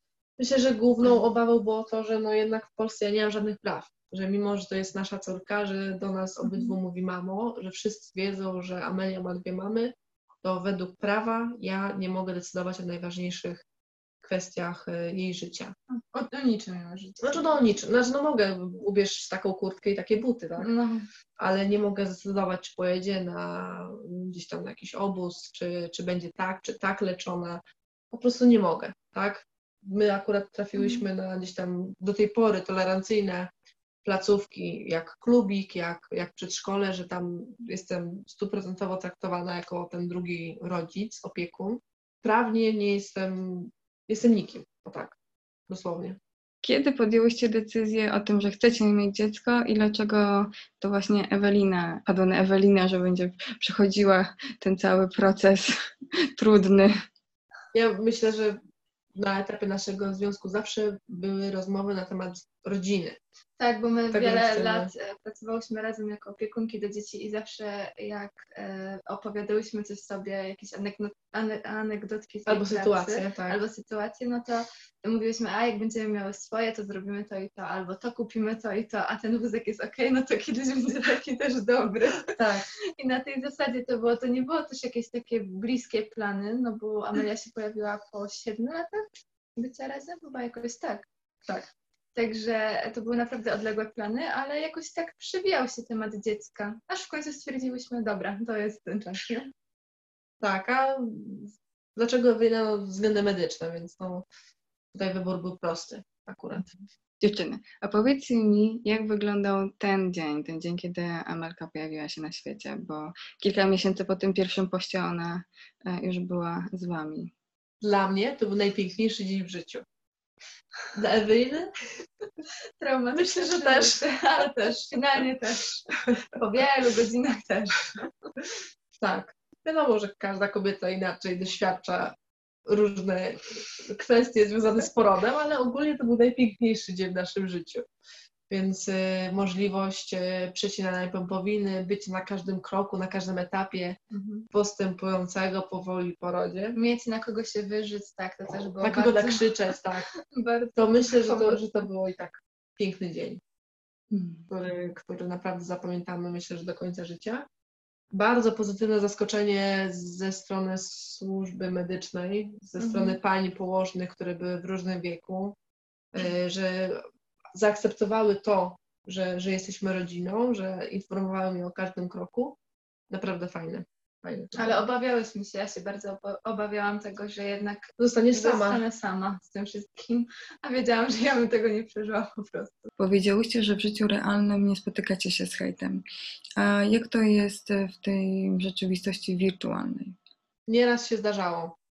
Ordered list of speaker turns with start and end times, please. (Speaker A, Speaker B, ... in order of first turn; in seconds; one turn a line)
Speaker A: 0.4-13.6
Speaker A: 14.2-15.7
Speaker B: 15.9-17.5
Speaker A: 17.2-20.7
Speaker B: 20.6-21.1
Speaker A: 21.4-27.6
Speaker A: 28.1-33.5
Speaker B: 30.8-31.1
Speaker A: 34.0-45.1
Speaker A: 45.7-46.2
Speaker C: 46.6-55.7
Speaker C: 56.4-56.9
Speaker A: 57.7-58.6
Speaker A: 59.1-63.2
Speaker B: 63.6-82.4
Speaker A: 64.1-64.9
Speaker A: 72.5-73.6
Speaker A: 82.3-82.7
Speaker B: 83.0-89.0
Speaker B: 89.5-91.0
Speaker B: 92.1-99.5
Speaker A: 100.4-104.2
Speaker A: 104.9-106.7
Speaker C: 107.2-117.3
Speaker A: 117.8-119.8
Speaker A: 120.9-121.7
Speaker B: 122.8-128.0
Speaker A: 123.1-124.5
Speaker A: 129.0-132.1
Speaker A: 132.7-137.8
Speaker A: 138.5-144.0
Speaker B: 144.1-144.4
Speaker A: 144.5-146.8
Speaker B: 146.7-151.7
Speaker A: 148.8-150.1
Speaker A: 150.8-153.4
Speaker C: 154.1-154.5
Speaker A: 154.5-157.4
Speaker A: 158.1-165.5
Speaker B: 162.8-163.2
Speaker A: 166.1-167.0
Speaker A: 167.5-172.6
Speaker A: 173.1-174.8
Speaker B: 174.6-182.9
Speaker A: 178.0-178.8
Speaker C: 183.0-186.0
Speaker C: 186.6-190.1
Speaker A: 190.7-191.7